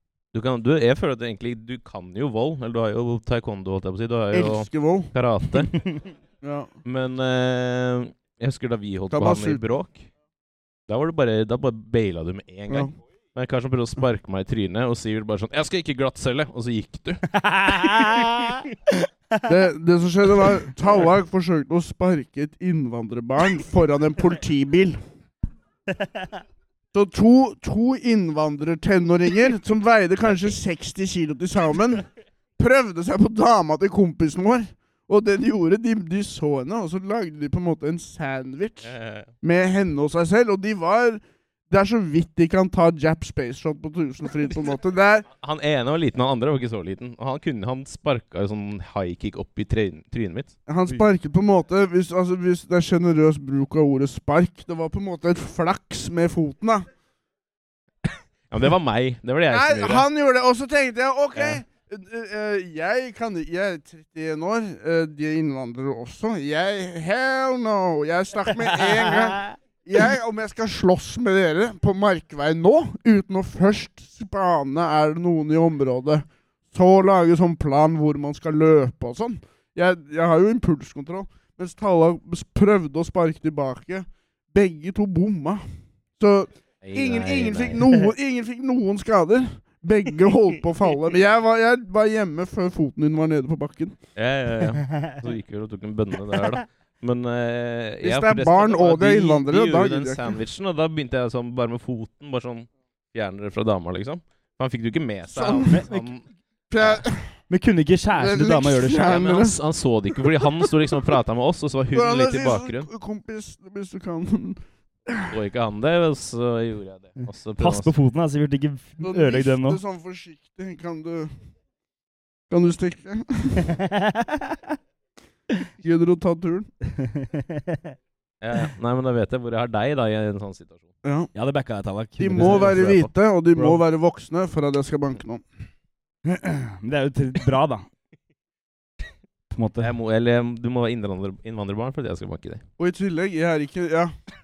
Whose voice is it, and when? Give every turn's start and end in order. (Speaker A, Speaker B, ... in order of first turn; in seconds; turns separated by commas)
Speaker A: 0.3-5.8, Speaker B: 4.3-5.1, Speaker B: 6.4-6.7, Speaker A: 6.8-10.1, Speaker B: 9.1-9.6, Speaker A: 10.9-17.3, Speaker B: 12.7-12.9, Speaker C: 17.3-18.6, Speaker B: 19.4-25.0, Speaker B: 26.9-32.1, Speaker B: 32.6-45.3, Speaker A: 38.8-39.3, Speaker A: 45.4-50.9, Speaker B: 50.7-56.9, Speaker A: 58.5-60.0, Speaker B: 59.5-85.6, Speaker A: 61.4-61.6, Speaker B: 86.2-94.0, Speaker A: 86.8-87.8, Speaker A: 94.2-106.2, Speaker B: 98.0-100.4, Speaker B: 105.3-106.1, Speaker B: 106.7-107.4, Speaker A: 106.8-107.0, Speaker C: 107.5-109.2, Speaker B: 108.1-109.6, Speaker A: 109.0-112.9, Speaker B: 110.2-110.7, Speaker B: 111.9-115.3, Speaker A: 115.3-117.9, Speaker C: 117.2-119.8, Speaker B: 119.0-121.3, Speaker B: 122.5-123.7, Speaker C: 123.7-124.6, Speaker B: 125.8-126.7, Speaker C: 126.8-127.8, Speaker A: 128.4-130.9, Speaker B: 131.0-131.3, Speaker C: 131.3-133.0, Speaker B: 132.2-135.4, Speaker A: 132.4-133.1, Speaker C: 136.3-137.8, Speaker C: 139.5-139.9, Speaker A: 139.8-142.6, Speaker B: 142.8-144.1